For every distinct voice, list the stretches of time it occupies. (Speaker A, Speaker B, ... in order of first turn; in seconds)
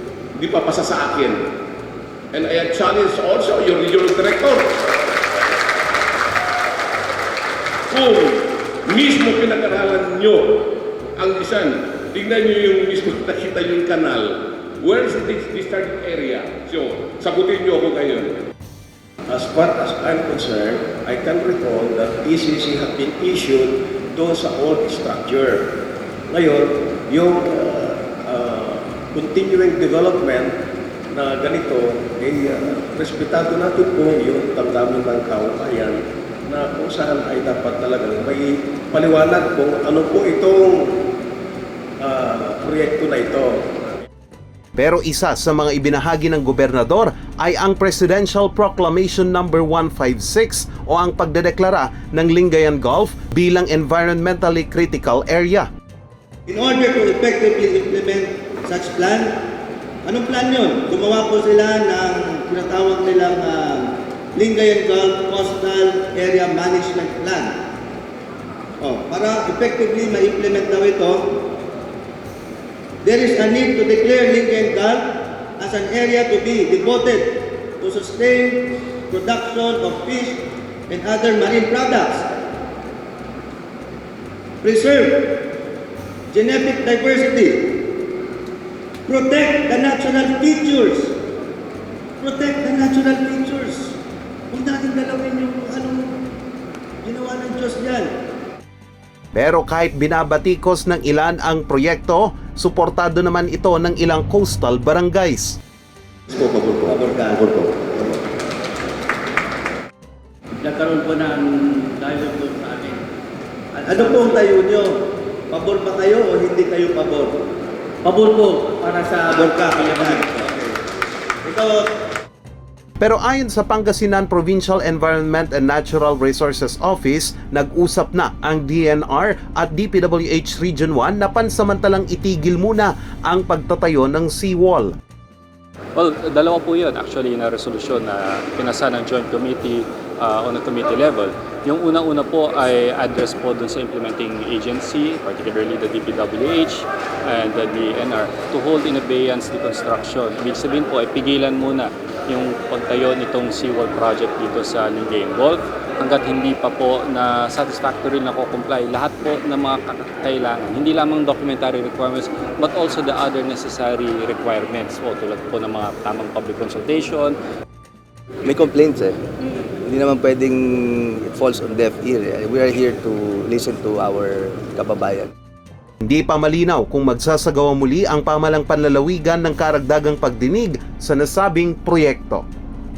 Speaker A: 0.4-1.3, 2.3-4.6, 7.9-8.3, 8.9-10.3, 11.2-14.3, 14.8-18.2
Speaker B: 19.3-25.7, 26.3-30.5, 31.1-41.0, 42.0-43.8, 106.5-106.8
Speaker C: 44.8-55.7, 99.3-105.5, 123.0-134.9, 176.0-182.4
Speaker D: 56.5-59.3, 60.0-67.6, 68.8-71.4, 73.0-82.3, 84.6-85.5, 86.3-87.8, 89.0-91.1, 92.2-94.0, 94.5-96.1, 97.0-98.1, 106.3-107.7, 113.8-114.9, 115.5-117.3, 119.2-120.6, 121.4-121.8
Speaker E: 110.6-113.0, 113.8-114.5, 118.0-120.5
Speaker F: 135.9-167.4
Speaker G: 168.4-169.2, 169.8-175.3